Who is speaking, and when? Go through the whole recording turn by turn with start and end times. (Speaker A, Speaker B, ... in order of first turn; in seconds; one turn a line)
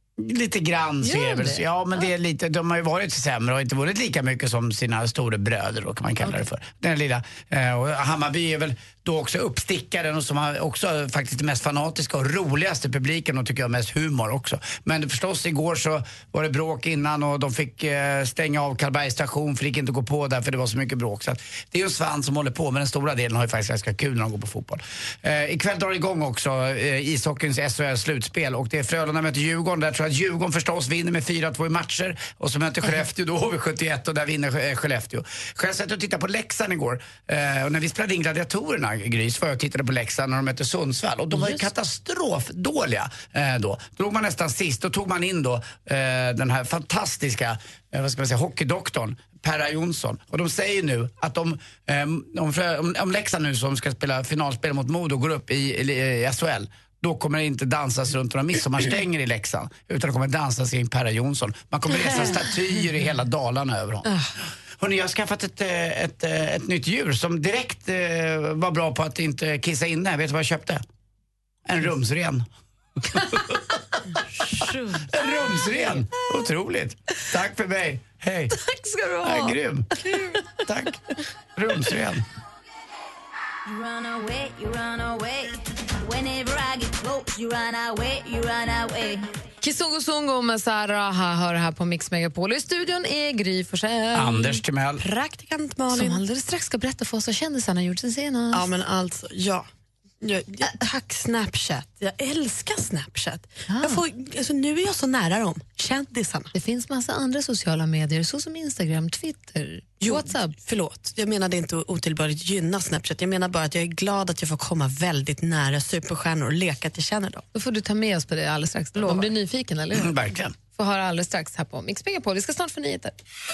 Speaker A: 0.2-64.1
Speaker B: 1.0-1.6
Speaker C: 62.0-62.4
Speaker A: 64.8-70.8
Speaker A: 71.7-72.5
Speaker A: 73.0-73.6
Speaker C: 74.1-75.2
Speaker A: 75.1-78.6
Speaker B: 78.5-79.6
Speaker A: 79.2-82.3
Speaker D: 83.7-89.3
Speaker B: 89.6-94.6
Speaker A: 94.1-95.0
Speaker C: 95.0-96.2
Speaker B: 95.9-98.7
Speaker C: 98.5-99.7
Speaker C: 100.2-106.5
Speaker B: 103.7-104.0
Speaker B: 106.5-110.5
Speaker C: 110.0-117.5
Speaker B: 117.5-120.2
Speaker C: 119.0-119.3
Speaker A: 119.9-120.6
Speaker B: 120.7-123.1